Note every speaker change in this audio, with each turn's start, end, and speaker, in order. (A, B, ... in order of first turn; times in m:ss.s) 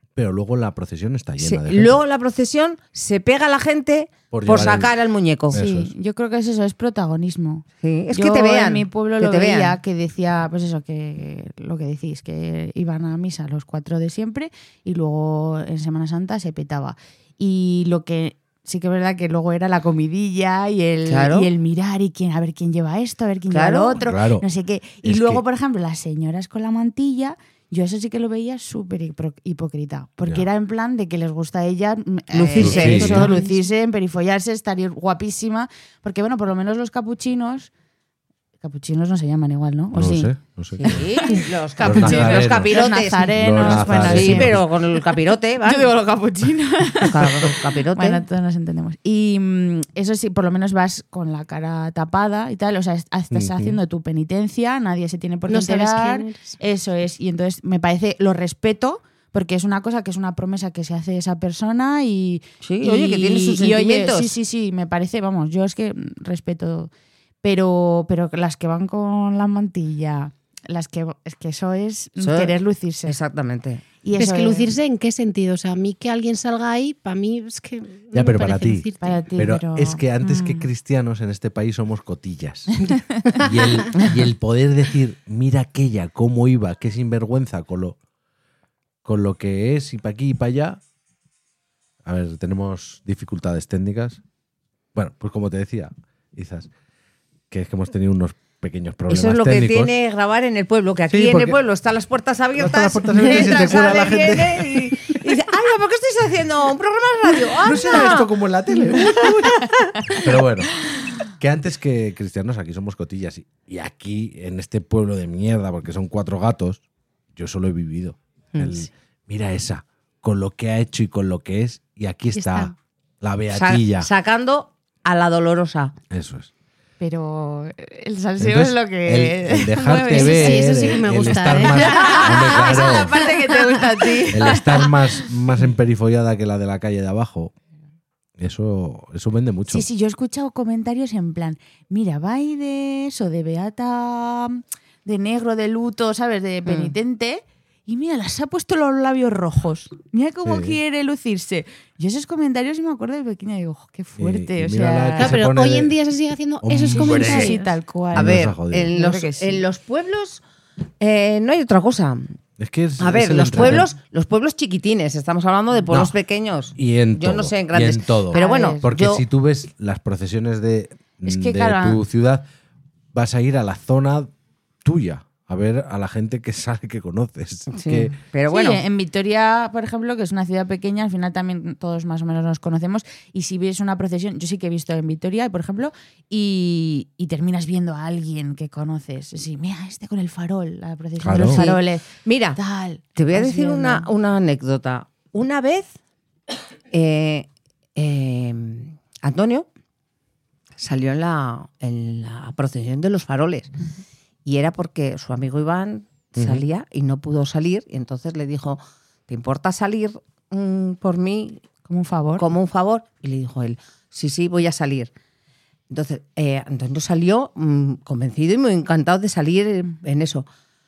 0:00.2-0:02.0 A
0:01.4-0:05.6 B
0:04.3-0:04.9 A
0:05.5-0:05.9 A
0:05.5-0:37.7 C
0:07.8-0:09.8 B
0:21.0-0:21.5 B
0:23.5-0:24.0 B
0:24.0-0:24.4 A
0:25.0-0:25.4 A
0:32.3-0:33.5 B
0:32.6-0:33.3 A
0:33.2-0:33.5 D
0:38.6-0:44.6 C
0:39.9-0:41.0 A
0:40.8-0:45.9 B
0:41.8-0:42.8 A
0:43.3-0:44.7 A
0:45.6-1:06.9 C
0:47.0-0:48.2 B
0:53.3-0:53.8 A
0:55.5-0:56.6 D
1:02.6-1:04.3 B
1:07.4-1:13.2 C
1:12.2-1:13.8 B
1:14.0-1:14.7 C
1:14.2-1:19.2 D
1:18.1-1:28.0 A
1:19.0-1:20.7 C
1:22.9-1:23.2 C
1:29.0-1:30.8 A
1:32.0-1:34.2 A
1:34.9-1:36.7 A
1:37.5-1:39.9 A
1:39.1-1:48.3 B
1:41.1-1:41.6 A
1:42.6-1:45.0 A
1:47.6-1:56.8 A
1:48.9-1:50.2 B
1:57.3-2:04.1 A
1:58.5-1:58.9 B
2:02.3-2:02.7 D
2:03.5-2:05.9 B
2:06.1-2:06.5 A
2:07.0-2:14.9 C
2:08.4-2:13.2 A
2:10.1-2:13.3 D
2:14.3-2:17.5 A
2:18.4-2:19.8 A
2:19.7-2:35.4 C
2:26.6-2:26.9 B
2:30.4-2:30.8 A
2:34.2-2:35.9 A
2:35.2-2:37.7 D
2:36.6-2:37.6 A
2:36.9-2:39.6 C
2:38.1-2:38.9 A
2:38.1-2:40.4 B
2:41.0-2:42.4 B
2:42.6-2:43.9 A
2:43.0-2:49.2 B
2:45.9-2:46.1 A
2:46.8-2:52.5 A
2:48.3-2:48.9 C
2:51.2-2:52.0 C
2:53.1-2:54.3 A
2:54.8-2:58.1 A
2:57.7-2:58.8 B
2:58.5-3:14.1 C
3:11.2-3:11.6 A
3:11.3-3:12.6 B
3:13.2-3:15.9 B
3:16.9-3:19.6 B
3:20.8-3:23.7 B
3:24.4-3:31.6 B
3:26.4-3:26.6 A
3:31.9-3:32.4 C
3:32.4-3:35.1 B
3:35.9-3:40.4 B